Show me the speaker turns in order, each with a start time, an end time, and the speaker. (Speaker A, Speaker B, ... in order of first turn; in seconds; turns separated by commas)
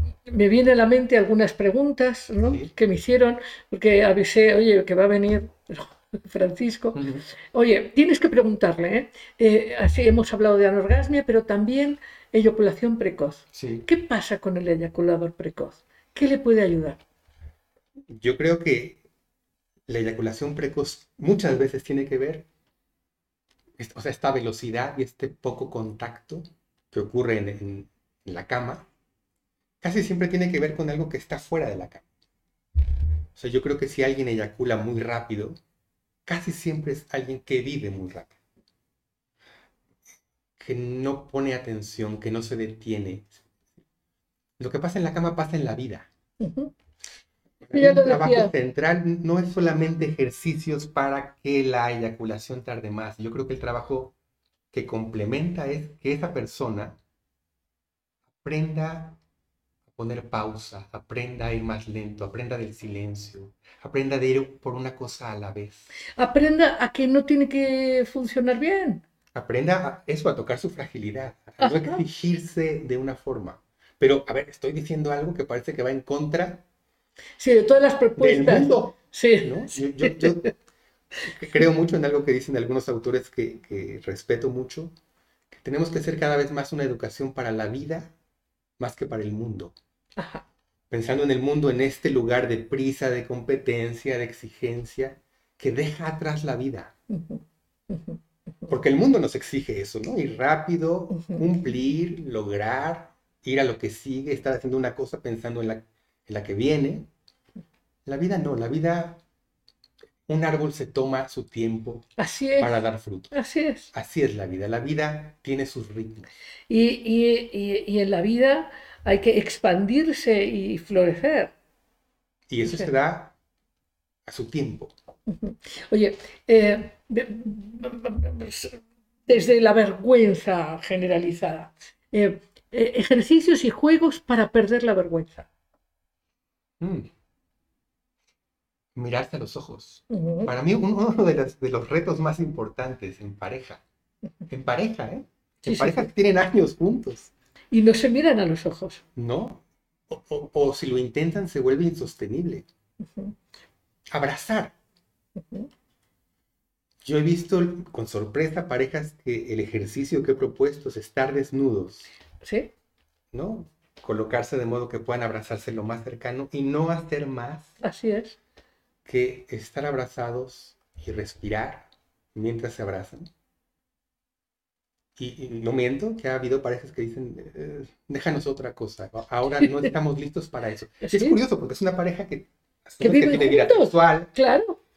Speaker A: 0.3-17.0, Speaker B: 2.4-2.7, Speaker B: 7.0-7.2, Speaker B: 13.5-13.9, Speaker B: 18.1-19.0, Speaker B: 19.9-22.5, Speaker B: 23.8-28.9, Speaker B: 29.8-32.0, Speaker B: 33.4-35.6, Speaker B: 36.3-38.4, Speaker B: 40.6-43.4, Speaker B: 44.6-46.1, Speaker A: 46.4-46.7, Speaker B: 47.6-54.1, Speaker A: 47.7-48.5, Speaker B: 54.7-57.0, Speaker B: 58.4-59.2, Speaker B: 59.9-65.9, Speaker A: 66.2-69.0, Speaker B: 69.3-76.6, Speaker A: 71.6-72.0, Speaker A: 77.4-80.5, Speaker B: 78.2-80.6, Speaker B: 81.3-84.9, Speaker B: 85.5-88.1, Speaker B: 88.8-89.7, Speaker A: 90.2-90.5, Speaker B: 90.9-96.9, Speaker A: 97.1-98.2, Speaker B: 98.7-107.1, Speaker A: 101.1-101.5, Speaker B: 108.1-109.2, Speaker B: 110.3-113.3, Speaker A: 112.2-112.7, Speaker A: 113.3-113.9, Speaker B: 113.9-116.3, Speaker A: 116.7-121.5, Speaker B: 122.5-123.3, Speaker A: 122.6-122.9, Speaker B: 124.3-124.9, Speaker A: 125.3-135.5, Speaker B: 136.8-137.1, Speaker B: 138.9-143.8, Speaker A: 140.1-140.5, Speaker B: 144.5-147.3, Speaker A: 145.7-146.1, Speaker A: 147.7-149.0, Speaker B: 149.2-152.7, Speaker A: 153.0-153.3, Speaker B: 154.1-154.7, Speaker A: 155.4-155.7, Speaker B: 157.0-162.1, Speaker A: 162.4-162.7, Speaker B: 163.3-167.7, Speaker A: 167.8-168.4, Speaker B: 169.1-173.3, Speaker B: 175.2-184.3, Speaker A: 179.6-179.9, Speaker A: 181.0-181.4, Speaker A: 183.0-184.8